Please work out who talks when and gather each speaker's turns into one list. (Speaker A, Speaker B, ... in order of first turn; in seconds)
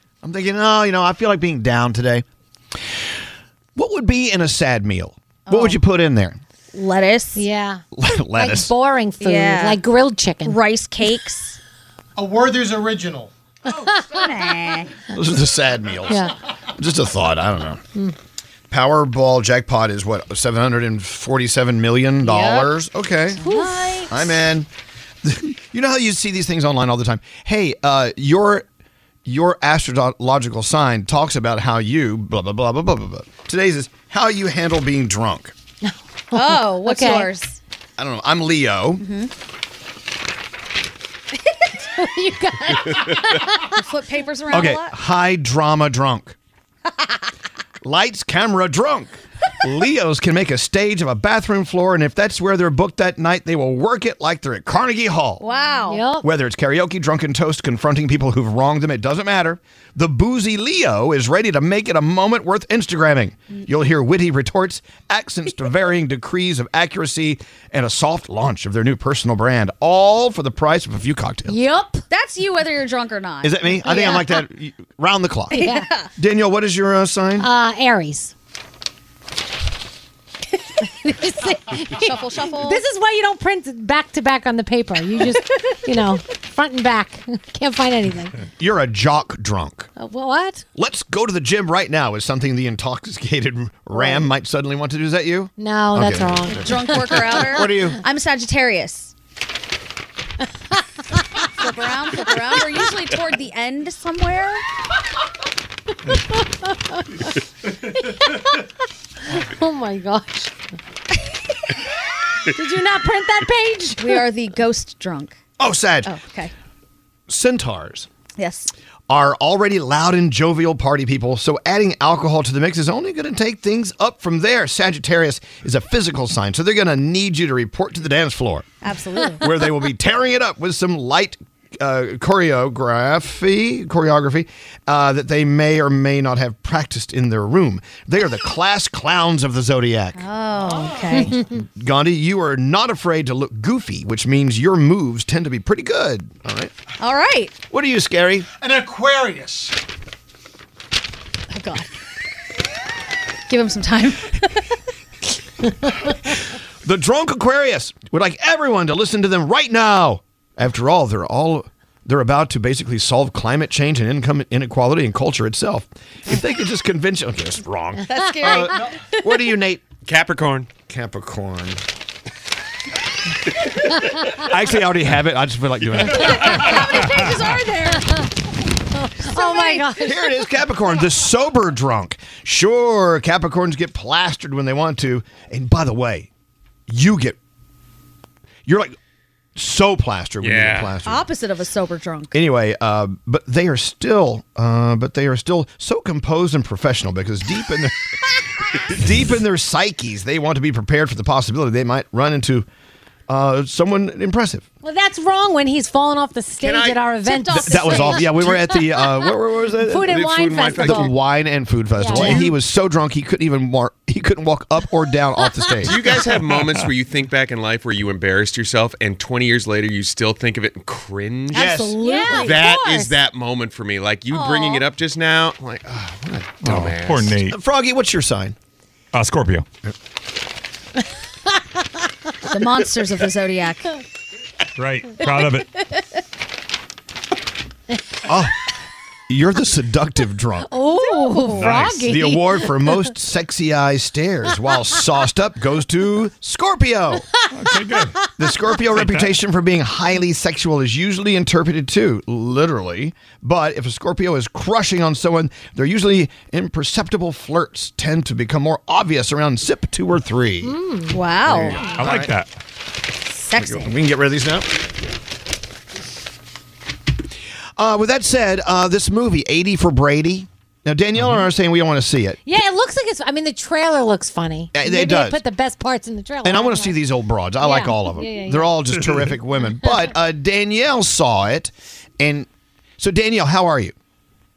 Speaker A: 0.2-2.2, 3.8-6.4, 7.9-8.7, 15.1-17.8, 18.7-23.4, 24.1-24.7, 25.2-28.6, 29.2-35.5, 38.0-39.0, 44.5-46.4, 47.8-55.4, 56.2-71.6, 73.4-75.5, 76.2-77.5, 88.6-89.9, 90.7-98.0, 115.6-116.1, 117.3-118.1, 119.1-128.7, 129.4-140.2, 141.5-146.7, 147.7-148.5, 156.8-169.9, 170.9-171.8, 174.2-176.7, 180.0-186.3, 186.9-187.4, 188.6-188.9, 189.6-191.3, 192.3-198.1, 198.8-202.7, 203.3-204.6, 207.6-216.0, 221.5-222.0, 227.5-228.5, 238.2-238.7, 239.3-240.7, 241.8-247.3, 248.3-260.8, 261.6-262.3, 263.6-264.7, 267.8-272.4, 274.7-275.4, 276.4-282.5, 283.0-283.9
Speaker B: 5.5-5.8, 6.7-7.5, 9.2-9.8, 10.4-11.6, 13.9-15.0, 22.2-22.7, 23.4-24.3, 36.3-37.6, 39.0-39.3, 43.6-45.0, 55.4-56.0, 72.1-73.6, 75.5-76.1, 81.9-82.8, 96.6-99.1, 101.5-104.6, 114.0-115.4, 116.0-116.5, 118.4-118.7, 128.8-129.4, 140.2-141.3, 147.0-147.6, 151.5-151.9, 153.5-154.8, 168.0-169.1, 176.2-178.3, 179.3-179.9, 191.1-192.4, 207.2-208.3, 222.0-222.7, 224.3-224.8, 232.5-233.9, 240.9-241.7, 261.1-261.9, 263.3-263.9
Speaker C: 7.3-7.8, 8.3-10.6, 16.1-16.4, 23.4-24.1, 36.3-37.3, 41.8-43.7, 55.9-56.3, 71.5-72.0, 73.8-74.2, 75.5-75.8, 77.4-78.3, 80.8-88.4, 90.0-90.6, 93.9-94.2, 95.6-97.4, 106.1-108.7, 109.2-110.5, 112.4-114.2, 176.5-177.3, 179.0-180.4, 204.8-209.0, 209.8-211.1, 212.0-212.5, 215.5-215.8, 221.5-223.2, 240.7-242.9, 260.6-261.2, 272.4-277.0, 277.6-278.8
Speaker D: 12.2-13.3, 148.6-149.8
Speaker E: 170.1-170.7, 190.4-190.9, 206.6-207.0, 210.1-211.1, 212.2-212.4, 215.8-221.6, 222.4-227.4
Speaker F: 216.5-216.8, 226.6-227.6, 229.1-229.6, 234.8-235.7, 241.5-242.1, 247.5-248.3, 249.0-249.3, 261.6-262.5